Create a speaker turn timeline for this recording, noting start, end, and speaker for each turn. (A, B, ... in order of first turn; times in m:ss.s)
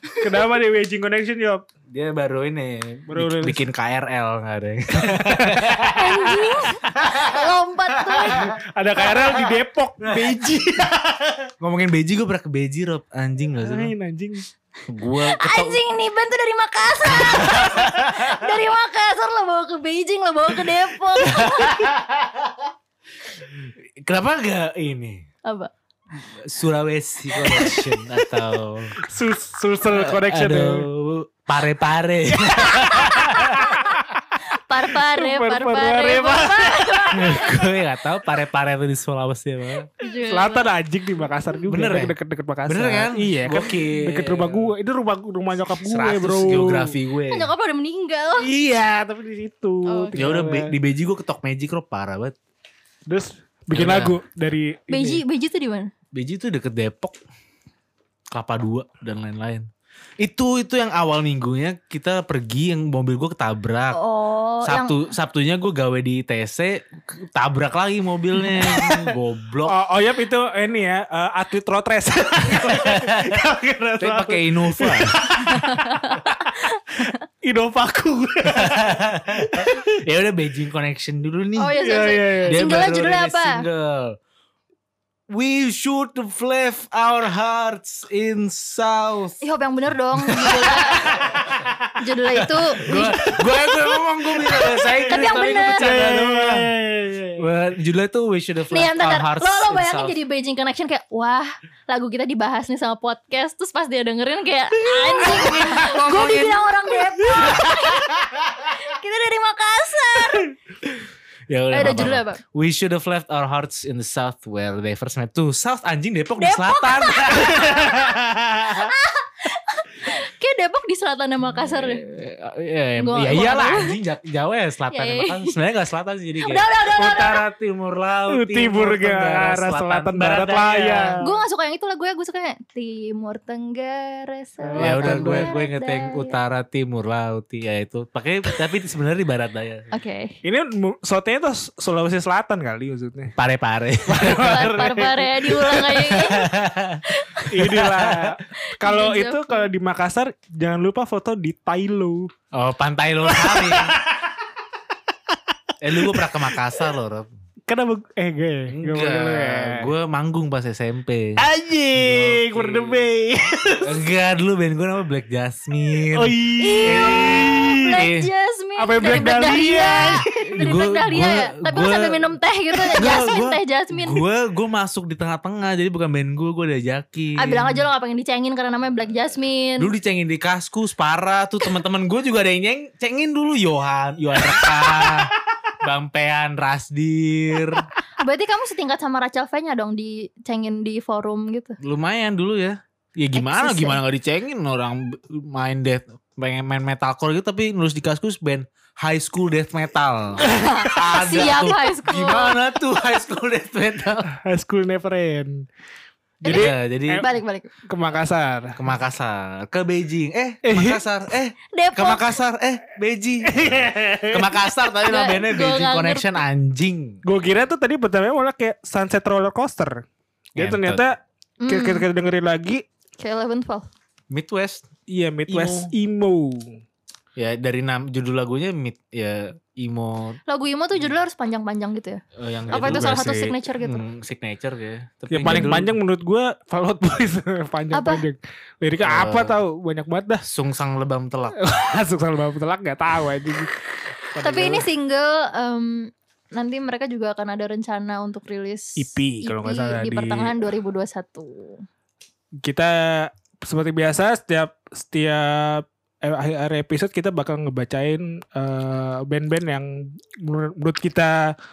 0:00.2-0:01.6 A
0:01.9-0:06.0 B
0:03.1-0:03.6 A
0:04.9-0:06.5 A
0:05.9-0:08.5 C
0:06.9-0:07.5 B
0:08.0-0:08.5 B
0:08.2-0:11.5 A
0:10.0-0:10.4 B
0:11.6-0:13.9 B
0:13.6-0:14.4 A
0:14.9-0:15.8 B
0:15.1-0:21.9 C
0:17.1-0:18.3 B
0:21.2-0:22.6 B
0:23.6-0:25.2 B
0:26.1-0:29.0 B
0:27.3-0:28.2 A
0:29.0-0:30.9 A
0:29.9-0:33.8 B
0:32.6-0:34.0 A
0:32.7-0:33.9 C
0:34.4-0:37.7 C
0:34.9-0:37.5 A
0:37.1-0:39.9 B
0:40.0-0:40.7 C
0:40.3-0:46.9 A
0:41.7-0:42.1 B
0:42.6-0:44.7 B
0:45.8-0:47.5 B
0:47.3-0:48.5 C
0:48.4-0:50.7 A
0:49.8-0:50.2 C
0:50.1-0:52.3 B
0:53.1-0:55.2 A
0:53.7-0:54.2 B
0:54.9-0:55.9 C
0:56.1-0:57.1 B
0:58.3-0:59.6 B
1:00.2-1:04.0 B
1:03.9-1:05.0 C
1:04.6-1:09.7 B
1:08.4-1:09.1 A
1:09.6-1:16.5 A
1:12.6-1:13.4 B
1:14.0-1:15.2 B
1:15.5-1:17.2 C
1:17.0-1:20.0 A
1:18.5-1:21.8 B
1:21.6-1:23.6 C
1:21.8-1:22.7 A
1:22.4-1:24.2 B
1:25.3-1:29.4 B
1:29.4-1:31.2 C
1:30.2-1:31.7 B
1:31.2-1:31.7 A
1:32.0-1:35.9 C
1:32.3-1:36.7 B
1:35.0-1:37.5 A
1:37.4-1:40.2 B
1:38.7-1:50.5 C
1:45.0-1:46.6 A
1:45.2-1:46.6 B
1:47.2-1:47.7 A
1:51.5-1:58.9 B
1:51.7-1:52.4 C
1:56.4-2:02.0 C
2:01.5-2:11.2 B
2:03.0-2:04.0 C
2:04.9-2:05.6 C
2:06.4-2:07.4 C
2:08.3-2:11.4 A
2:11.2-2:16.4 C
2:14.6-2:15.5 A
2:14.8-2:19.9 B
2:19.9-2:20.4 C
2:20.4-2:23.3 A
2:23.4-2:24.8 B
2:24.0-2:25.9 A
2:24.2-2:27.6 C
2:25.7-2:27.1 B
2:27.5-2:32.3 A
2:27.6-2:28.4 B
2:28.6-2:29.7 C
2:32.5-2:34.0 B
2:33.2-2:34.3 A
2:35.8-2:37.3 B
2:35.9-2:36.5 A
2:37.7-2:39.9 A
2:38.7-2:43.1 B
2:41.4-2:44.1 A
2:43.8-2:48.3 B
2:46.1-2:48.0 A
2:46.6-2:54.2 C
2:48.8-2:50.7 A
2:50.5-2:52.3 B
2:53.0-2:57.8 B
2:57.4-2:59.9 C
2:59.8-3:07.9 B
3:04.8-3:05.2 A
3:08.2-3:11.8 C
3:11.8-3:24.3 B
3:13.3-3:14.0 C
3:20.4-3:23.0 C
3:24.3-3:25.6 A
3:26.4-3:27.3 A
3:26.4-3:27.7 C
3:26.4-3:27.2 B
3:27.8-3:28.8 A
3:28.7-3:37.2 B
3:30.6-3:31.0 A
3:31.7-3:32.3 C
3:33.4-3:34.6 A
3:35.0-3:36.4 C
3:37.2-3:40.0 A
3:40.6-3:41.0 B
3:40.6-3:42.8 A
3:41.6-3:42.1 C
3:43.2-3:43.9 C
3:44.3-3:44.8 B
3:45.1-3:46.8 A
3:45.5-3:45.9 B
3:47.4-3:50.4 B
3:50.5-3:54.0 C
3:52.4-3:55.9 B
3:55.3-4:00.5 A
3:57.9-3:58.2 C
3:59.0-3:59.6 B
4:00.5-4:01.6 B
4:01.5-4:03.8 A
4:04.3-4:04.9 A
4:04.4-4:11.8 C
4:09.0-4:10.7 A
4:12.6-4:21.5 A